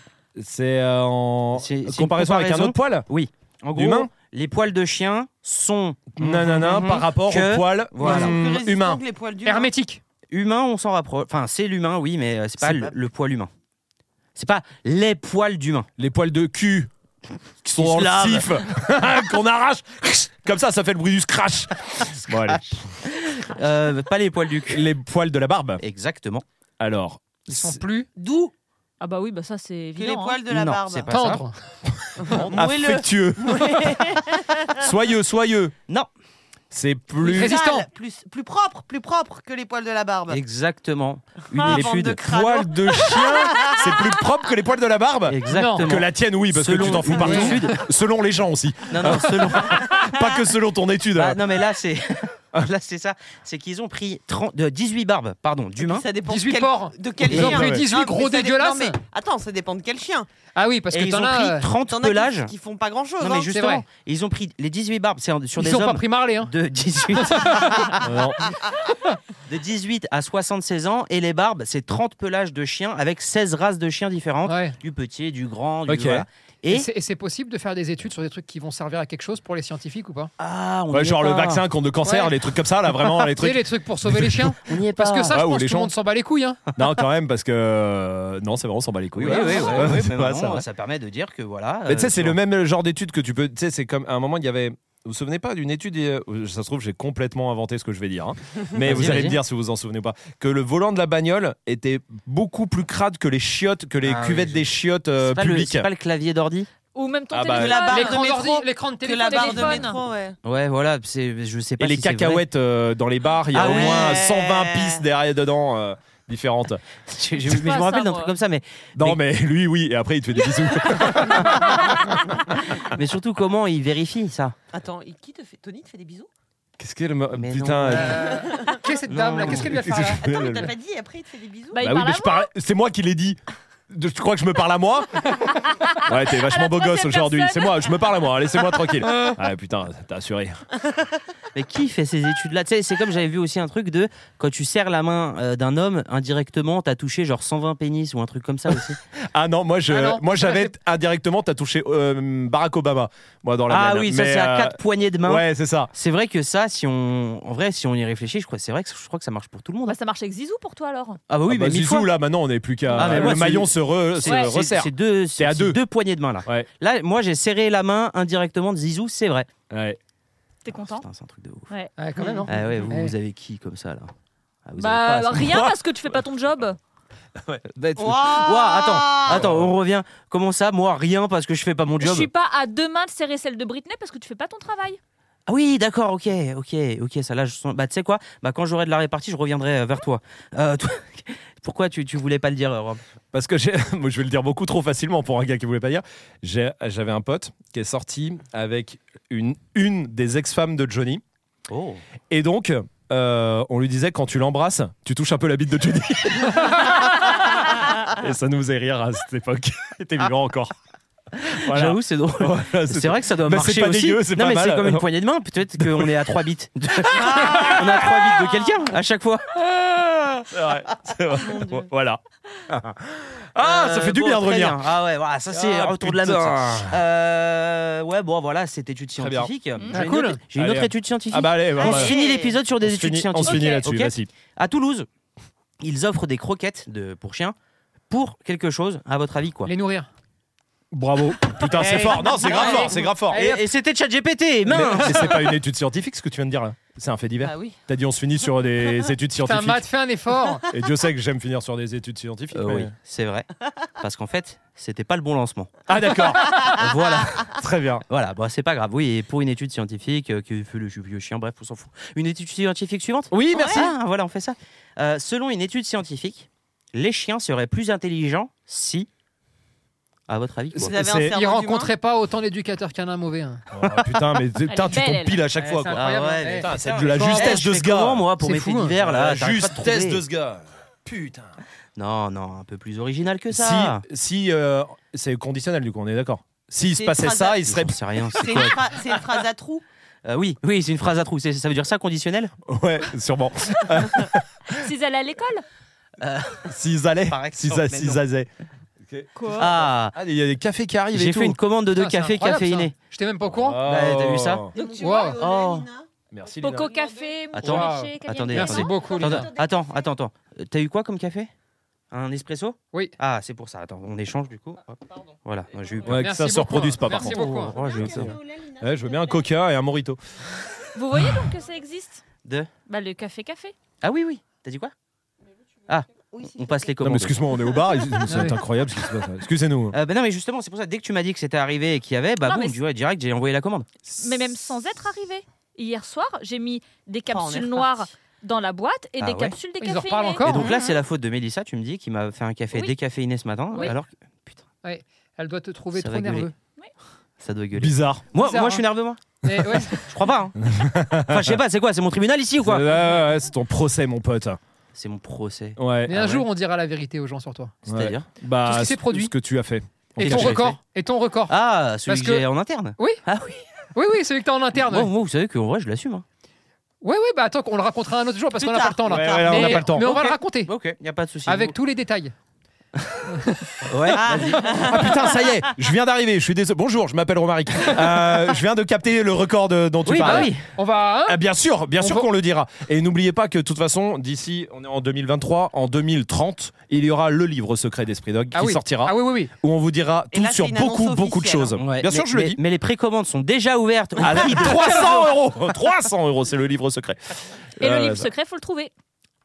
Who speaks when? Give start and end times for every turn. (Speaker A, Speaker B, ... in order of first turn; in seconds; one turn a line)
Speaker A: 0.4-3.0
Speaker B: 1.5-8.4
Speaker A: 3.8-4.1
Speaker A: 6.2-9.0
Speaker C: 6.3-6.9
Speaker D: 8.0-9.7
Speaker C: 9.4-10.0
Speaker B: 10.3-13.5
Speaker B: 14.3-15.9
Speaker A: 16.0-16.9
Speaker A: 17.6-23.0
Speaker B: 17.8-18.6
Speaker B: 22.5-24.9
Speaker A: 24.7-25.8
Speaker B: 25.8-26.4
Speaker A: 26.8-27.8
Speaker C: 27.5-28.1
Speaker D: 28.2-28.5
Speaker E: 29.0-30.4
Speaker D: 29.9-31.4
Speaker B: 30.5-31.4
Speaker C: 31.1-31.6
Speaker A: 31.9-34.2
Speaker D: 32.2-34.8
Speaker A: 34.8-35.7
Speaker A: 36.7-37.5
Speaker D: 37.2-40.4
Speaker C: 37.2-37.9
Speaker B: 40.3-42.2
Speaker D: 41.5-44.1
Speaker A: 41.6-51.4
Speaker B: 45.3-47.8
Speaker C: 45.5-45.9
Speaker D: 47.1-47.6
Speaker C: 47.3-47.8
Speaker B: 48.9-50.1
Speaker B: 51.1-56.0
Speaker D: 55.8-60.3
Speaker C: 56.2-59.0
Speaker A: 57.3-57.9
Speaker C: 60.5-61.7
Speaker B: 60.9-62.5
Speaker D: 61.8-63.5
Speaker B: 63.2-67.8
Speaker C: 63.5-63.8
Speaker C: 65.6-66.5
Speaker C: 67.2-68.0
Speaker D: 67.6-68.0
Speaker A: 68.0-68.5
Speaker B: 69.5-76.9
Speaker C: 74.5-74.8
Speaker A: 75.9-76.2
Speaker C: 76.7-80.3
Speaker B: 80.4-81.7
Speaker A: 80.9-84.5
Speaker C: 82.0-82.4
Speaker C: 83.3-86.7
Speaker B: 84.6-85.4
Speaker A: 85.3-85.9
Speaker A: 86.7-90.6
Speaker B: 89.1-92.4
Speaker A: 91.8-105.9
Speaker B: 98.8-99.4
Speaker B: 104.0-106.7
Speaker E: 106.9-108.2
Speaker A: 107.3-107.9
Speaker D: 107.5-110.4
Speaker C: 107.8-109.8
Speaker E: 109.2-110.0
Speaker B: 110.4-112.5
Speaker A: 111.8-116.8
Speaker B: 113.5-114.2
Speaker D: 113.5-115.0
Speaker B: 117.0-119.2
Speaker E: 117.5-118.3
Speaker A: 119.0-122.0
Speaker B: 121.0-121.8
Speaker B: 122.6-124.5
Speaker D: 124.7-126.3
Speaker A: 126.8-128.3
Speaker B: 127.3-128.2
Speaker C: 127.9-130.2
Speaker D: 128.0-128.8
Speaker A: 129.1-130.7
Speaker B: 129.2-129.6
Speaker D: 129.8-131.8
Speaker E: 131.7-132.5
Speaker A: 131.8-140.7
Speaker E: 135.6-138.3
Speaker B: 141.5-149.0
Speaker A: 149.3-155.9
Speaker C: 149.9-150.7
Speaker B: 153.7-160.0
Speaker E: 159.8-161.2
Speaker B: 161.3-162.1
Speaker A: 161.5-165.8
Speaker E: 162.9-163.4
Speaker B: 162.9-169.5
Speaker E: 164.2-164.6
Speaker A: 169.7-170.0
Speaker E: 170.6-171.1
Speaker B: 170.9-171.7
Speaker C: 172.0-173.1
Speaker D: 172.2-172.6
Speaker B: 172.5-174.1
Speaker B: 174.7-175.8
Speaker E: 174.8-176.8
Speaker B: 177.7-182.3
Speaker D: 178.0-179.6
Speaker A: 179.3-179.7
Speaker E: 182.0-185.0
Speaker B: 185.5-193.0
Speaker A: 193.3-201.2
Speaker B: 201.7-202.0
Speaker A: 202.3-210.7
Speaker A: 211.4-215.0
Speaker B: 211.4-219.5
Speaker A: 215.8-216.2
Speaker A: 217.0-218.3
Speaker D: 217.2-217.8
Speaker A: 219.7-224.8
Speaker D: 221.3-221.9
Speaker B: 223.6-235.1
Speaker A: 225.5-227.0
Speaker A: 229.2-229.5
Speaker C: 229.9-230.4
Speaker A: 230.5-232.2
Speaker D: 231.7-232.6
Speaker A: 232.8-234.3
Speaker E: 233.4-233.8
Speaker B: 235.8-237.6
Speaker B: 238.1-239.7
Speaker C: 239.7-240.1
Speaker A: 240.9-243.5
Speaker C: 241.7-243.6
Speaker B: 242.5-245.5
Speaker A: 244.7-249.9
Speaker D: 247.4-247.8
Speaker C: 249.4-250.7
Speaker A: 250.7-252.9
Speaker B: 252.5-255.7
Speaker A: 255.9-256.9
Speaker B: 256.4-257.4
Speaker D: 256.4-257.4
Speaker A: 257.5-258.0
Speaker B: 258.1-269.1
Speaker A: 263.3-263.9
Speaker D: 263.5-263.9
Speaker B: 270.3-271.0
Speaker D: 270.7-271.9
Speaker A: 270.7-271.3
Speaker C: 271.3-273.6
Speaker A: 273.7-278.3
Speaker E: 274.7-275.4
Speaker C: 275.6-277.6
Speaker B: 275.9-280.2
Speaker C: 278.4-278.9
Speaker A: 279.0-281.6
Speaker B: 281.9-284.0
Speaker A: 283.5-287.9
Speaker D: 286.9-287.7
Speaker B: 287.6-288.9
Speaker D: 288.3-289.8
Speaker B: 290.2-292.5
Speaker A: 292.7-294.7
Speaker E: 294.7-295.6
Speaker B: 296.2-296.7
Speaker A: 296.7-298.5
Speaker B: 297.2-298.2
Speaker A: 299.1-301.6
Speaker E: 299.3-299.7
Speaker B: 299.5-300.1
Speaker B: 301.1-302.9
Speaker C: 301.9-303.9
Speaker A: 303.5-304.7
Speaker B: 303.8-304.7
Speaker D: 304.7-306.1
Speaker C: 305.0-305.4
Speaker B: 305.3-305.9
Speaker A: 306.3-306.9
Speaker E: 306.6-309.1
Speaker D: 306.8-307.4
Speaker B: 307.5-311.5
Speaker C: 307.6-309.5
Speaker D: 308.9-309.7
Speaker B: 312.1-316.2
Speaker A: 316.0-320.2
Speaker C: 316.2-317.8
Speaker B: 317.1-318.4
Speaker D: 317.4-319.2
Speaker E: 320.9-322.2
Speaker B: 322.4-322.7
Speaker E: 322.9-323.7
Speaker B: 324.0-324.9
Speaker B: 325.9-327.5
Speaker D: 326.3-326.9
Speaker A: 327.0-330.0
Speaker C: 328.2-328.6
Speaker B: 329.9-333.9
Speaker E: 332.4-332.8
Speaker E: 334.2-340.8
Speaker D: 337.3-338.1
Speaker B: 339.2-339.5
Speaker C: 339.8-340.7
Speaker B: 340.4-344.6
Speaker C: 344.8-346.5
Speaker B: 345.9-346.5
Speaker B: 347.4-350.7
Speaker A: 347.7-348.3
Speaker C: 348.4-348.8
Speaker C: 349.4-350.0
Speaker A: 349.5-350.0
Speaker A: 350.6-351.6
Speaker B: 351.3-353.1
Speaker A: 352.6-354.6
Speaker B: 354.9-356.4
Speaker A: 355.8-356.2
Speaker C: 356.1-357.8
Speaker A: 357.9-360.6
Speaker B: 357.9-358.3
Speaker C: 358.6-359.3
Speaker C: 360.2-361.5
Speaker B: 360.2-360.8
Speaker B: 361.5-363.7
Speaker C: 362.1-362.4
Speaker C: 363.9-365.1
Speaker B: 364.8-366.2
Speaker C: 367.0-370.7
Speaker D: 368.6-369.9
Speaker A: 369.1-370.1
Speaker B: 369.9-371.8
Speaker C: 371.4-372.3
Speaker B: 372.9-373.3
Speaker C: 373.3-373.8
Speaker B: 373.8-375.3
Speaker D: 374.1-375.3
Speaker A: 374.3-380.6
Speaker B: 380.0-380.6
Speaker C: 380.2-381.4
Speaker A: 381.3-392.6
Speaker C: 382.0-382.3
Speaker C: 388.5-389.5
Speaker D: 390.3-391.8
Speaker B: 391.8-395.3
Speaker A: 394.2-398.3
Speaker E: 397.8-398.9